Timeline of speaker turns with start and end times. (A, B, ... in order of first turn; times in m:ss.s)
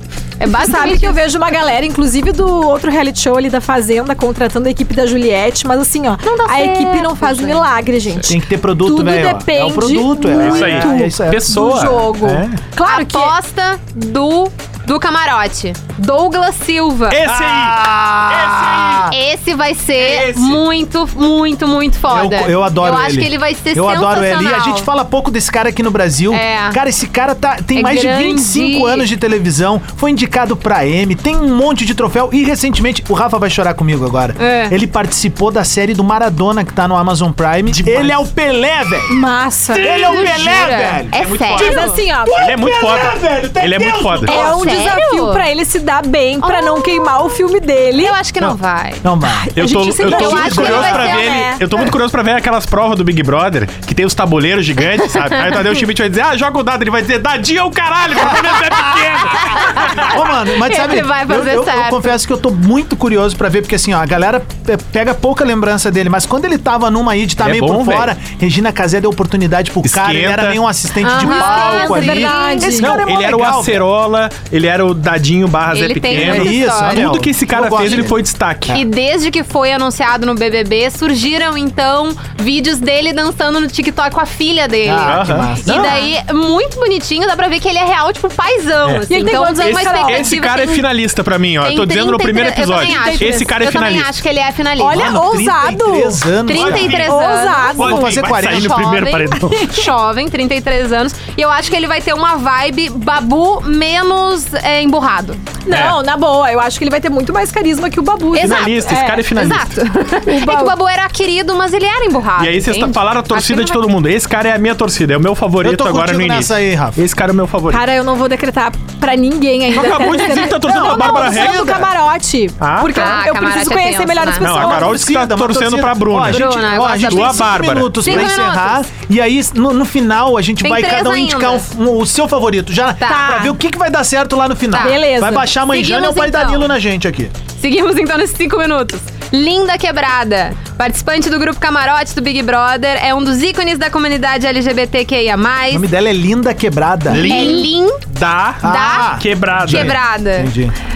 0:00.4-0:01.2 A
0:00.4-0:13.3 B
0:06.2-0:07.7 A
0:08.3-0:11.6 C
0:10.3-0:12.6 D
0:12.9-0:24.9 A
0:17.1-0:19.2 D
0:17.3-0:18.2 C
0:20.0-0:20.6 D
0:22.1-0:41.2 C
0:26.3-0:26.8 A
0:27.7-0:29.1 A
0:34.4-0:34.8 A
0:37.7-0:38.2 D
0:39.1-0:39.9 B
0:39.7-0:41.9 A
0:39.9-0:44.4 D
0:41.6-0:42.4 B
0:41.8-0:44.6 C
0:44.2-0:45.4 A
0:44.2-0:48.2 B
0:46.4-0:47.2 A
0:47.9-0:49.0 A
0:49.0-0:50.8 C
0:49.2-0:51.6 B
0:49.6-1:00.1 D
0:50.0-0:51.4 A
0:58.2-0:58.6 C
0:59.6-1:02.2 A
0:59.8-1:13.9 C
1:07.4-1:08.1 D
1:09.8-1:10.6 D
1:11.0-1:12.8 A
1:11.2-1:12.2 D
1:11.2-1:12.9 B
1:12.7-1:18.8 D
1:15.7-1:17.1 A
1:16.1-1:18.2 C
1:18.7-1:30.9 A
1:24.8-1:25.9 C
1:25.1-1:26.0 D
1:25.7-1:26.1 B
1:29.1-1:30.4 B
1:29.6-1:34.2 D
1:31.6-1:35.2 A
1:32.7-1:33.5 B
1:34.8-1:36.3 B
1:34.9-1:37.0 C
1:36.5-1:45.5 A
1:36.5-1:37.2 D
1:37.0-1:38.2 B
1:37.8-1:39.7 D
1:37.8-1:39.1 C
1:39.4-1:39.9 B
1:45.7-1:49.3 B
1:45.7-1:46.0 D
1:48.3-1:53.9 A
1:48.4-1:49.8 D
1:50.3-1:50.7 B
1:52.4-1:57.8 D
1:55.6-1:57.0 C
1:57.7-2:05.0 B
1:59.7-2:01.9 D
2:00.6-2:01.9 C
2:02.6-2:03.2 D
2:02.9-2:04.5 A
2:04.4-2:08.3 D
2:04.4-2:17.3 C
2:06.2-2:08.8 A
2:10.6-2:11.6 A
2:13.0-2:13.4 A
2:13.1-2:13.6 B
2:14.7-2:15.0 A
2:14.8-2:15.5 B
2:15.7-2:16.7 A
2:17.6-2:25.9 A
2:25.7-2:27.6 C
2:27.1-2:30.0 D
2:27.2-2:28.0 A
2:28.6-2:30.7 C
2:28.6-2:30.5 A